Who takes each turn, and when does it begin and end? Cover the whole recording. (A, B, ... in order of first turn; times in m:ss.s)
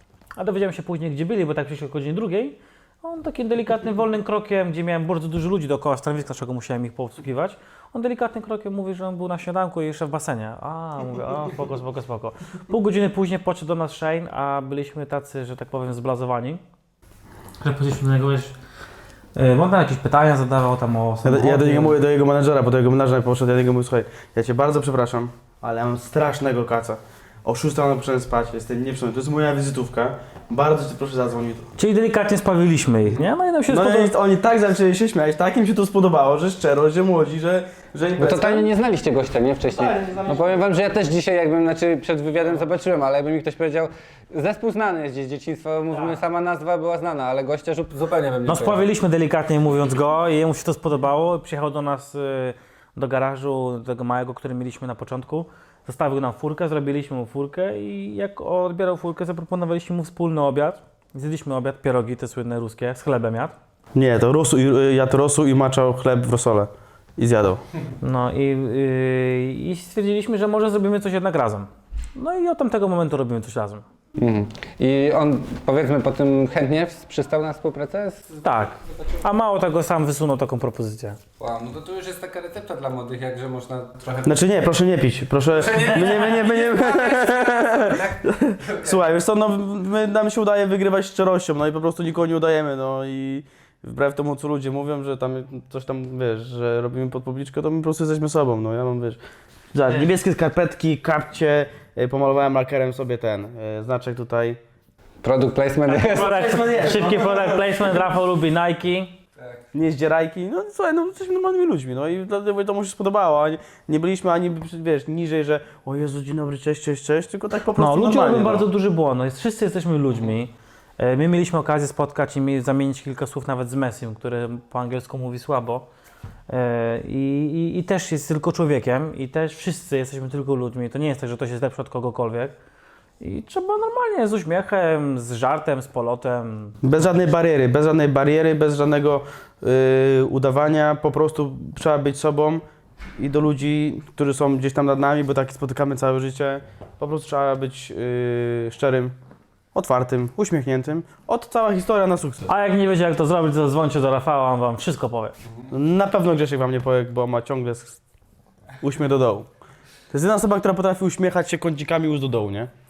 0:00.4-0:16.6 A
0:17.6-0:18.5 A
0:19.4-0:22.0 A
0:21.2-0:31.7 B
0:31.8-0:34.1 A
0:33.2-0:38.7 B
0:38.2-0:48.9 C
0:39.7-0:40.6 B
0:48.5-1:03.6 A
1:04.0-1:07.6 B
1:08.0-1:13.8 A
1:14.2-1:18.4 C
1:18.4-1:21.2 A
1:21.4-1:24.4 C
1:24.3-1:39.2 B
1:25.5-1:29.0 C
1:39.7-1:44.6 B
1:45.2-1:46.4 C
1:45.9-1:49.2 A
1:46.2-1:47.9 B
1:49.7-1:58.6 B
1:57.8-2:05.9 A
2:06.5-2:12.6 A
2:13.2-2:16.8 A
2:16.8-2:22.6 B
2:23.2-2:29.1 B
2:29.8-2:32.5 B
2:32.5-2:35.3 A
2:35.7-2:38.0 B
2:38.8-2:39.5 B
2:40.1-2:42.7 B